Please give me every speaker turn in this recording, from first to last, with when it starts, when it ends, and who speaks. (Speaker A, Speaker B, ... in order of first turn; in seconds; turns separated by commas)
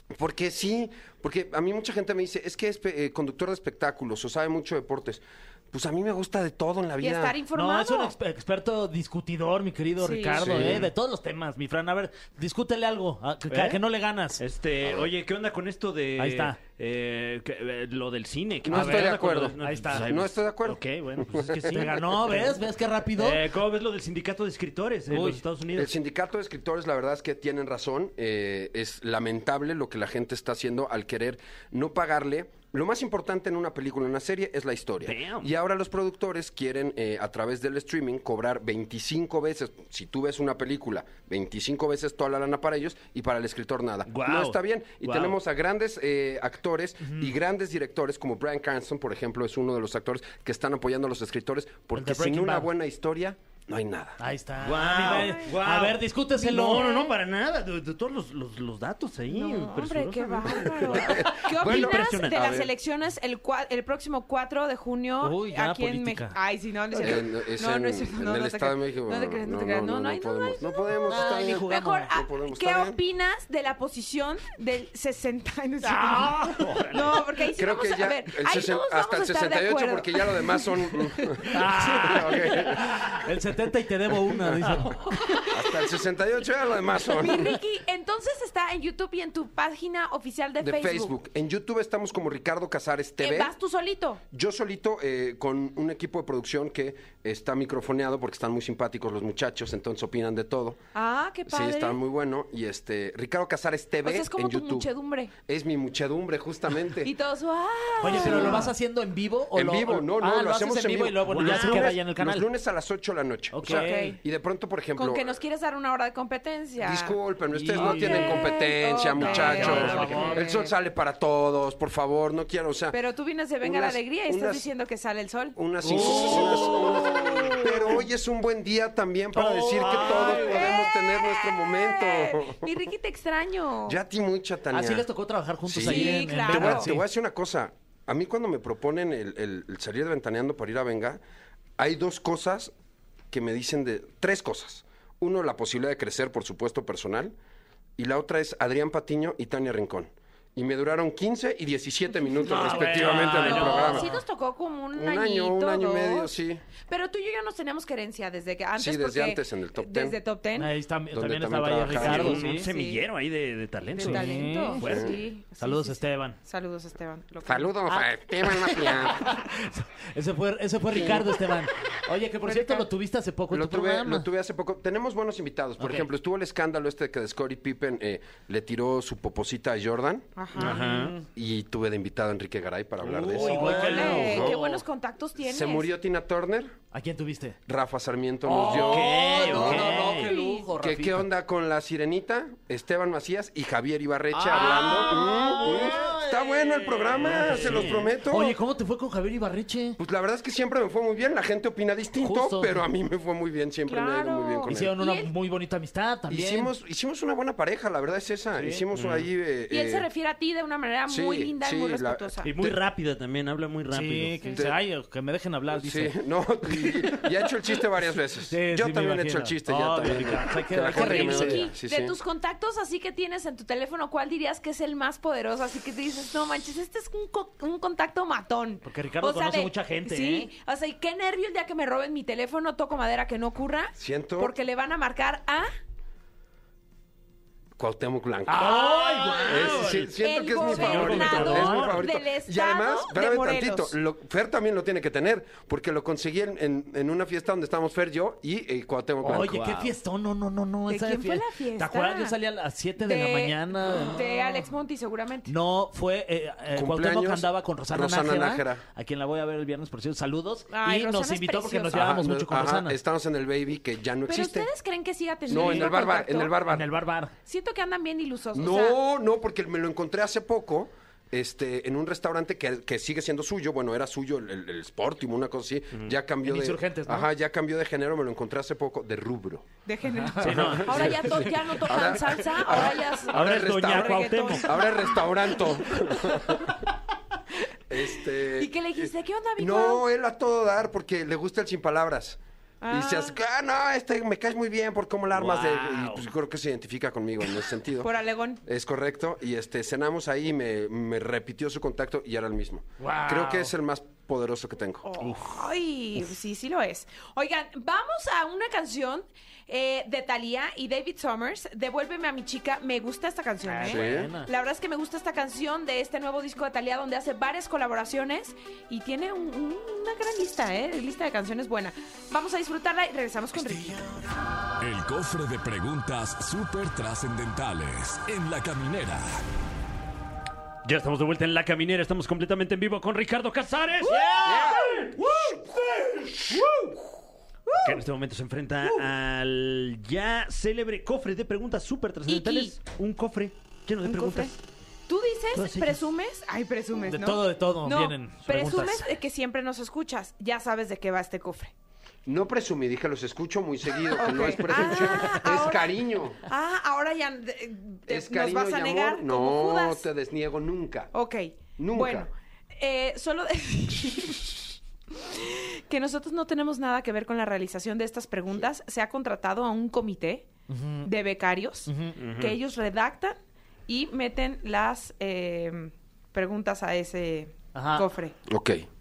Speaker A: 0.1-7.4, Speaker B: 7.0-8.2, Speaker C: 7.5-14.4, Speaker B: 10.0-10.5, Speaker A: 10.4-10.9, Speaker D: 10.6-10.9, Speaker D: 13.5-13.8, Speaker D: 14.4-22.6, Speaker C: 16.2-16.6, Speaker A: 18.6-21.8, Speaker C: 18.7-20.1, Speaker C: 21.7-23.4, Speaker D: 23.1-25.9, Speaker C: 25.1-25.4, Speaker A: 25.7-54.2, Speaker D: 35.0-35.5, Speaker D: 44.1-45.4, Speaker C: 47.0-47.3, Speaker C: 51.9-52.7, Speaker C: 54.2-56.9, Speaker D: 54.6-62.6, Speaker B: 55.0-55.5, Speaker B: 56.7-57.1, Speaker B: 59.3-80.5, Speaker A: 60.8-62.7, Speaker C: 65.2-66.4, Speaker A: 67.0-73.0, Speaker C: 71.1-72.1, Speaker C: 75.8-76.7, Speaker D: 76.5-77.2, Speaker A: 77.5-83.2, Speaker C: 81.4-85.2, Speaker A: 84.2-85.0, Speaker B: 85.1-85.8, Speaker A: 85.5-87.6, Speaker B: 87.0-91.1, Speaker A: 90.6-93.5, Speaker B: 93.2-94.2, Speaker A: 94.3-100.8, Speaker B: 101.0-102.0, Speaker A: 101.5-107.1, Speaker B: 104.0-105.3, Speaker B: 107.0-108.7, Speaker C: 108.0-112.5, Speaker A: 108.0-108.7, Speaker A: 109.5-115.4, Speaker D: 111.3-111.8, Speaker C: 113.5-114.2, Speaker B: 113.7-114.2, Speaker B: 115.0-117.2, Speaker A: 116.8-123.0, Speaker C: 117.5-118.5, Speaker B: 117.8-120.7, Speaker C: 119.2-120.4, Speaker D: 119.4-120.2, Speaker B: 122.9-125.6, Speaker A: 123.6-124.7, Speaker A: 125.6-132.7, Speaker C: 125.8-128.0, Speaker B: 126.6-127.7, Speaker C: 129.3-130.8, Speaker B: 129.9-134.0, Speaker A: 133.9-135.1, Speaker C: 134.7-137.0, Speaker A: 135.7-141.2, Speaker B: 135.8-136.9, Speaker A: 141.8-142.7, Speaker A: 143.3-147.3, Speaker A: 148.0-154.1, Speaker C: 152.4-154.1, Speaker D: 152.7-154.1, Speaker B: 153.4-156.3, Speaker A: 154.9-156.6, Speaker B: 156.9-160.7, Speaker A: 158.8-160.2, Speaker C: 160.6-162.7, Speaker A: 161.1-162.4, Speaker D: 161.9-165.1, Speaker B: 162.4-163.0, Speaker B: 164.0-167.7, Speaker C: 164.0-164.9, Speaker A: 164.8-165.2, Speaker C: 165.6-166.4, Speaker A: 167.4-169.4, Speaker C: 167.9-174.3, Speaker A: 170.9-171.5, Speaker B: 172.5-172.9, Speaker A: 173.5-180.3, Speaker C: 175.8-176.1, Speaker B: 180.4-180.8, Speaker D: 180.6-181.2, Speaker C: 180.6-181.3, Speaker A: 181.3-184.6, Speaker D: 183.0-184.6, Speaker C: 183.3-184.7, Speaker B: 183.6-185.9, Speaker A: 185.4-186.8, Speaker C: 186.9-187.6, Speaker A: 187.7-190.1, Speaker C: 188.4-191.3, Speaker D: 188.6-190.3, Speaker B: 189.8-190.7, Speaker A: 190.8-198.6, Speaker C: 194.3-200.0, Speaker D: 197.2-198.1, Speaker A: 200.0-204.9, Speaker C: 202.2-202.8, Speaker B: 203.9-205.3, Speaker C: 204.7-206.7, Speaker A: 206.3-210.1, Speaker C: 208.6-208.8, Speaker D: 208.9-209.3, Speaker B: 209.7-212.5, Speaker A: 211.1-212.8, Speaker D: 212.4-214.4, Speaker C: 213.9-216.1, Speaker A: 214.5-214.8, Speaker A: 215.7-222.2, Speaker C: 216.7-217.2, Speaker C: 218.5-221.7, Speaker B: 220.9-235.7, Speaker C: 228.8-230.5, Speaker A: 234.0-234.6, Speaker A: 237.8-238.8, Speaker D: 238.5-242.1, Speaker C: 238.5-239.7, Speaker A: 239.4-249.6, Speaker B: 240.2-243.9, Speaker C: 249.2-254.7, Speaker D: 249.3-249.9, Speaker B: 250.9-252.4, Speaker B: 253.0-255.5, Speaker C: 255.5-263.0, Speaker A: 256.7-258.8, Speaker B: 260.7-262.2, Speaker A: 261.9-264.7, Speaker B: 264.3-266.6, Speaker A: 265.5-266.9, Speaker D: 265.5-265.9, Speaker C: 266.7-267.3, Speaker B: 267.4-269.0, Speaker A: 268.5-279.7, Speaker C: 276.4-277.3, Speaker B: 279.9-286.6, Speaker C: 280.2-280.8, Speaker D: 280.4-281.5, Speaker A: 280.4-286.9, Speaker D: 282.6-284.8, Speaker A: 287.9-298.1, Speaker B: 288.6-290.0, Speaker B: 292.8-293.4, Speaker D: 295.4-296.2, Speaker B: 298.0-298.6, Speaker A: 298.6-305.1, Speaker C: 303.0-303.7, Speaker B: 305.1-324.2, Speaker C: 313.6-314.5, Speaker A: 313.9-314.3, Speaker E: 324.8-329.4, Speaker D: 330.9-336.9, Speaker B: 334.2-334.8, Speaker A: 334.4-334.9, Speaker B: 337.7-338.0, Speaker D: 337.8-344.6, Speaker B: 342.3-342.7, Speaker B: 344.0-344.5, Speaker B: 345.1-351.7, Speaker D: 345.5-346.0, Speaker C: 347.1-349.1, Speaker A: 352.3-356.4, Speaker B: 354.1-355.9, Speaker B: 356.5-360.1, Speaker A: 358.1-361.1, Speaker B: 361.1-370.5, Speaker A: 361.8-362.3, Speaker C: 370.7-371.1, Speaker B: 371.1-378.4, Speaker C: 371.9-372.1, Speaker D: 372.2-372.6, Speaker C: 377.7-378.1, Speaker A: 378.5-378.9